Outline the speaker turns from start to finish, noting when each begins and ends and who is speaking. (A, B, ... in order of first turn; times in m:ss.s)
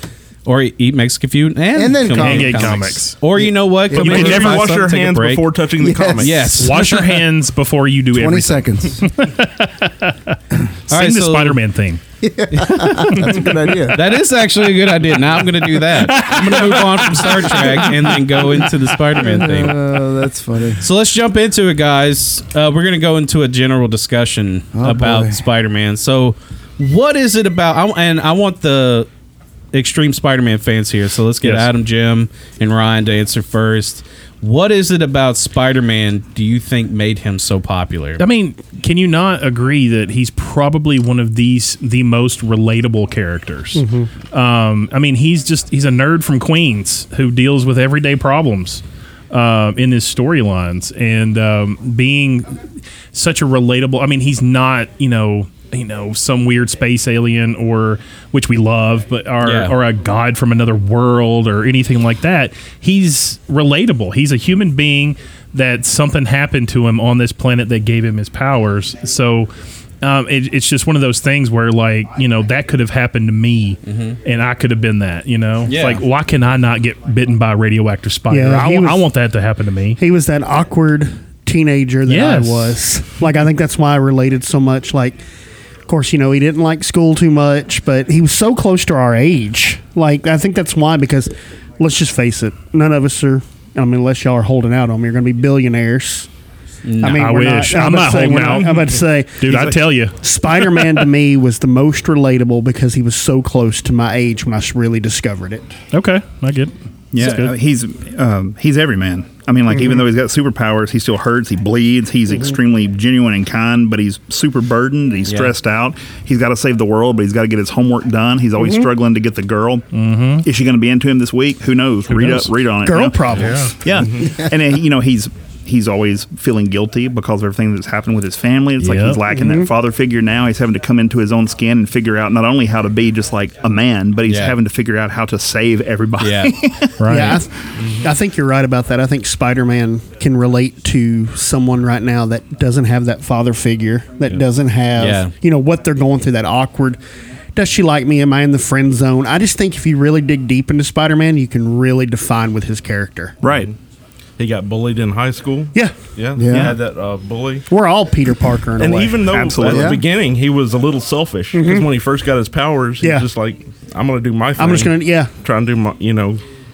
0:00.4-0:05.5 A
0:01.7-0:04.6 B
0:02.2-0:03.1 C
0:03.9-0:06.6 D
0:04.0-0:04.6 C
0:05.8-0:06.3 B
0:06.2-0:07.2 A
0:06.5-0:10.3 C
0:08.1-0:09.1 B
0:10.9-0:11.6 A
0:10.9-0:12.0 C
0:12.2-0:14.2 B
0:12.5-0:13.4 A
0:13.1-0:13.5 C
0:13.9-0:19.8 A
0:15.8-0:18.7 C
0:19.2-0:20.8 B
0:20.8-0:29.1 A
0:24.7-0:25.4 B
0:29.7-0:38.2 A
0:31.4-0:31.7 C
0:38.2-0:52.6 C
0:43.7-0:44.1 E
0:53.1-1:20.0 C
0:59.4-0:59.8 A
1:13.8-1:14.2 A
1:15.6-1:16.0 A
1:18.3-1:19.1 E
1:20.0-1:25.2 E
1:22.0-1:22.7 C
1:25.9-1:36.3 E
1:36.8-1:37.2 A
1:37.0-1:40.2 C
1:37.0-1:45.7 E
1:39.5-1:39.8 F
1:45.9-1:47.5 C
1:47.1-1:59.9 F
1:55.3-1:55.5 A
1:58.6-1:58.9 E
1:59.9-2:00.4 C
2:00.4-2:16.9 F
2:02.1-2:02.5 C
2:02.8-2:03.7 E
2:03.5-2:04.1 D
2:08.8-2:09.2 C
2:09.3-2:09.7 E
2:14.3-2:14.6 A
2:16.2-2:16.5 A
2:17.0-2:17.4 C
2:17.1-2:27.0 E
2:17.8-2:18.1 D
2:25.0-2:25.3 A
2:27.5-2:33.4 E
2:33.4-2:33.7 F
2:34.4-2:37.6 D
2:35.7-2:36.1 E
2:36.3-2:36.8 B
2:36.5-2:36.8 F
2:37.7-2:39.8 E
2:38.8-2:46.4 D
2:39.4-2:39.9 F
2:39.6-2:40.0 B
2:41.5-2:41.9 E
2:43.0-2:43.3 E
2:44.6-2:45.3 E